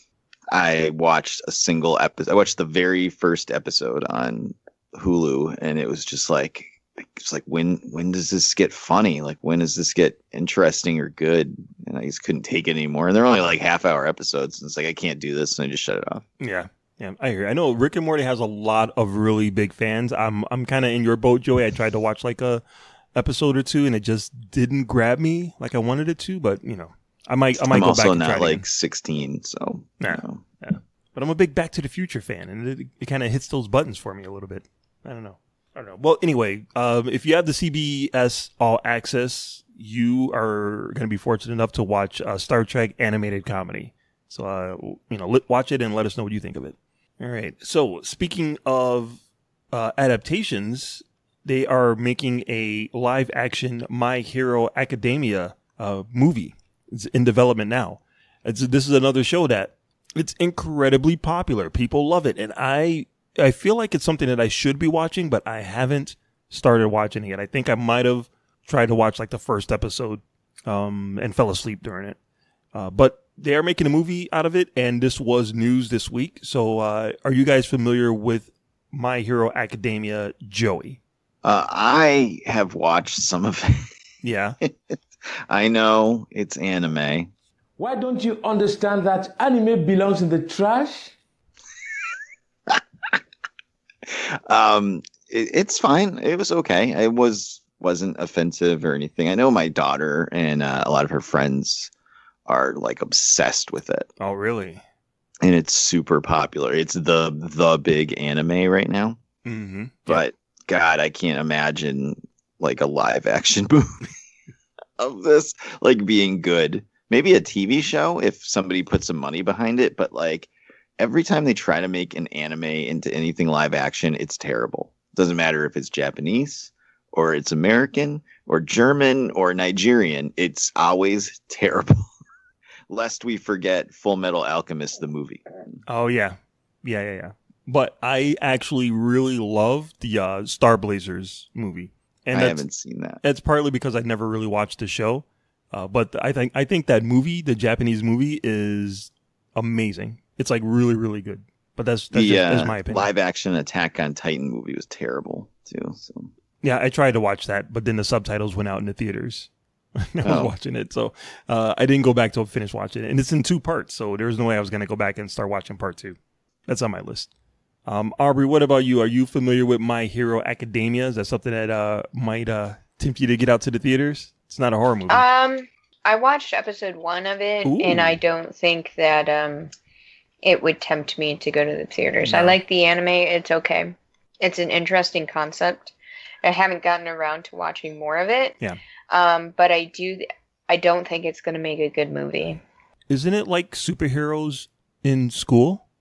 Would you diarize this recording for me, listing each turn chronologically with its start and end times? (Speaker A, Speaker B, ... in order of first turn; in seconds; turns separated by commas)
Speaker A: 0.5-16.2, Speaker B: 16.4-22.6, Speaker B: 23.1-28.6, Speaker A: 27.6-30.4, Speaker B: 30.0-49.2, Speaker B: 49.7-72.2, Speaker B: 72.7-81.0, Speaker A: 81.4-83.7, Speaker B: 84.2-84.6, Speaker A: 85.5-87.3, Speaker C: 87.8-91.1, Speaker A: 94.1-101.9, Speaker A: 102.5-104.1, Speaker B: 104.2-104.8, Speaker A: 105.4-109.2, Speaker B: 109.4-110.2, Speaker A: 110.1-114.0, Speaker A: 115.0-132.1, Speaker A: 132.9-135.8, Speaker B: 135.9-142.6, Speaker A: 142.3-143.2, Speaker B: 143.2-153.1, Speaker A: 152.1-156.3, Speaker B: 156.6-167.3, Speaker A: 160.2-160.5, Speaker B: 167.8-175.2, Speaker D: 175.1-179.7, Speaker B: 177.6-178.2, Speaker D: 180.4-188.6, Speaker B: 182.2-182.6, Speaker D: 189.1-192.6, Speaker B: 193.1-195.8